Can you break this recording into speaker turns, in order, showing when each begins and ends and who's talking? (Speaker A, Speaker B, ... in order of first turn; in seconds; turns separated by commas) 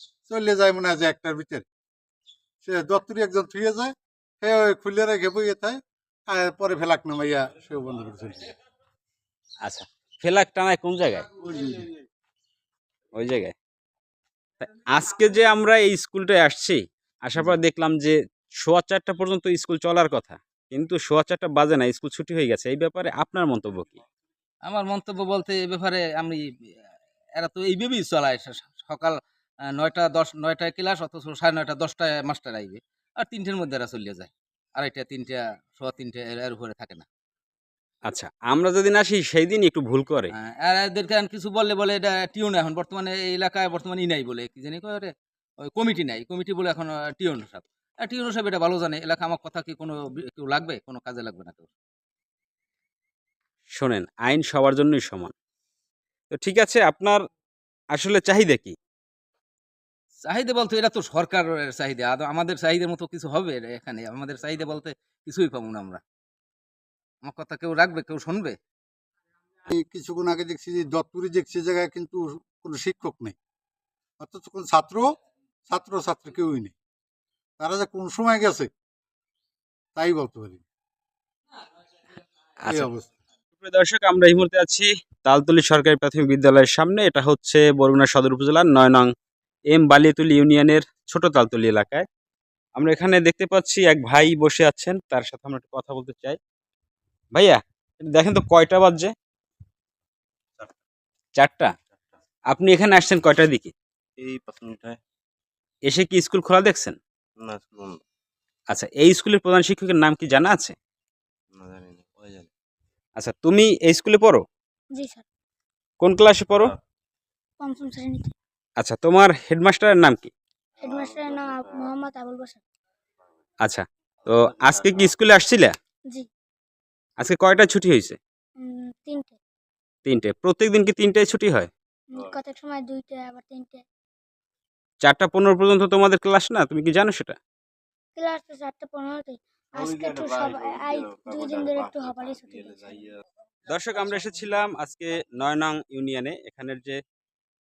Speaker A: 0.3-1.6, Speaker A: 2.6-8.5, Speaker B: 9.6-11.3, Speaker A: 11.4-11.9, Speaker B: 13.2-13.5, Speaker B: 14.6-24.0, Speaker C: 24.7-26.4, Speaker C: 27.4-29.1, Speaker C: 29.8-37.0, Speaker B: 38.1-40.3, Speaker C: 40.4-45.1, Speaker C: 45.6-51.7, Speaker B: 53.7-55.3, Speaker B: 56.3-57.2, Speaker B: 57.9-58.8, Speaker C: 60.2-66.0, Speaker C: 67.2-68.6, Speaker A: 69.7-73.4, Speaker A: 74.2-75.1, Speaker A: 75.7-76.7, Speaker A: 77.6-78.7, Speaker A: 80.0-80.6, Speaker A: 82.7-83.1, Speaker B: 83.6-89.1, Speaker B: 89.7-92.0, Speaker B: 92.8-96.4, Speaker B: 97.3-99.1, Speaker B: 101.4-101.7, Speaker B: 102.5-103.7, Speaker D: 104.2-105.0, Speaker B: 105.9-107.0, Speaker D: 107.4-108.0, Speaker B: 108.7-110.8, Speaker D: 111.5-112.5, Speaker B: 113.2-114.4, Speaker E: 115.0-115.2, Speaker B: 116.0-116.7, Speaker E: 117.6-118.3, Speaker B: 118.8-120.3, Speaker D: 120.8-122.0, Speaker E: 120.8-122.6, Speaker B: 123.6-125.7, Speaker B: 127.2-128.2, Speaker E: 128.6-129.4, Speaker B: 130.1-131.7, Speaker E: 132.1-133.8, Speaker B: 135.0-137.4, Speaker E: 138.2-143.0, Speaker D: 139.8-143.2, Speaker B: 143.7-147.0